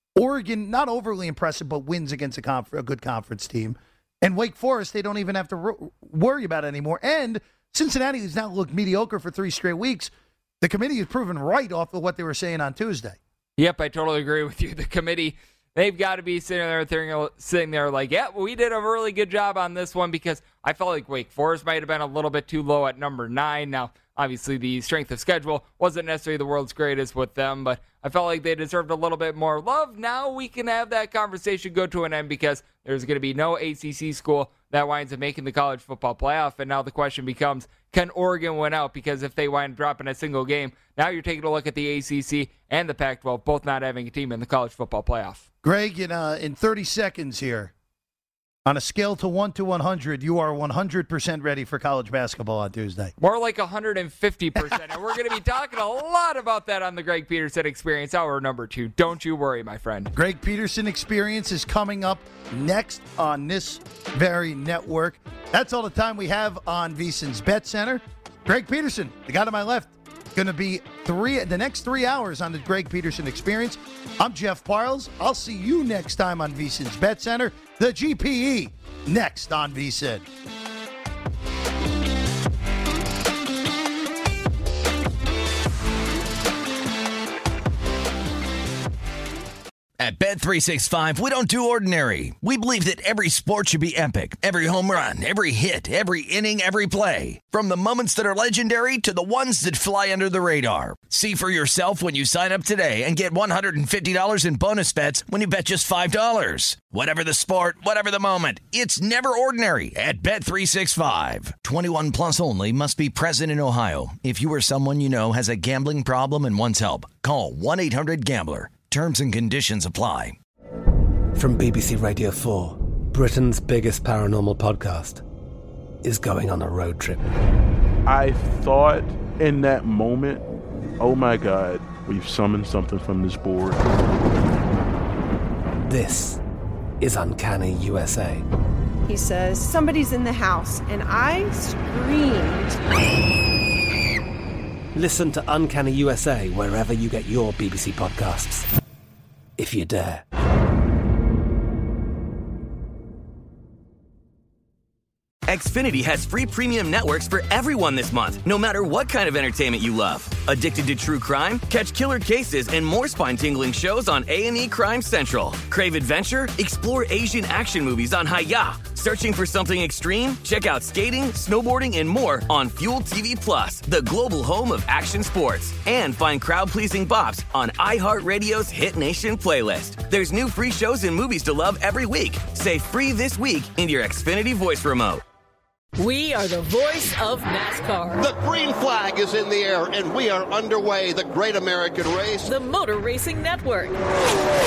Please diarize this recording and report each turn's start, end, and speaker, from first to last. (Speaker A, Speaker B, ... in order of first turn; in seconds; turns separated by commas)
Speaker A: 0.1-13.2, Speaker B: 13.6-45.5, Speaker A: 45.6-47.7, Speaker A: 48.6-53.1, Speaker B: 53.2-60.1, Speaker A: 60.1-80.2, Speaker C: 90.0-120.4, Speaker D: 121.3-125.2, Speaker D: 126.0-127.2, Speaker E: 128.1-130.4, Speaker E: 131.0-133.8, Speaker D: 135.8-136.4, Speaker D: 137.0-138.4, Speaker F: 139.1-142.8, Speaker D: 144.9-148.7, Speaker D: 149.6-150.2, Speaker G: 155.5-185.2, Speaker H: 186.0-188.2, Speaker I: 188.2-192.5, Speaker H: 192.4-194.0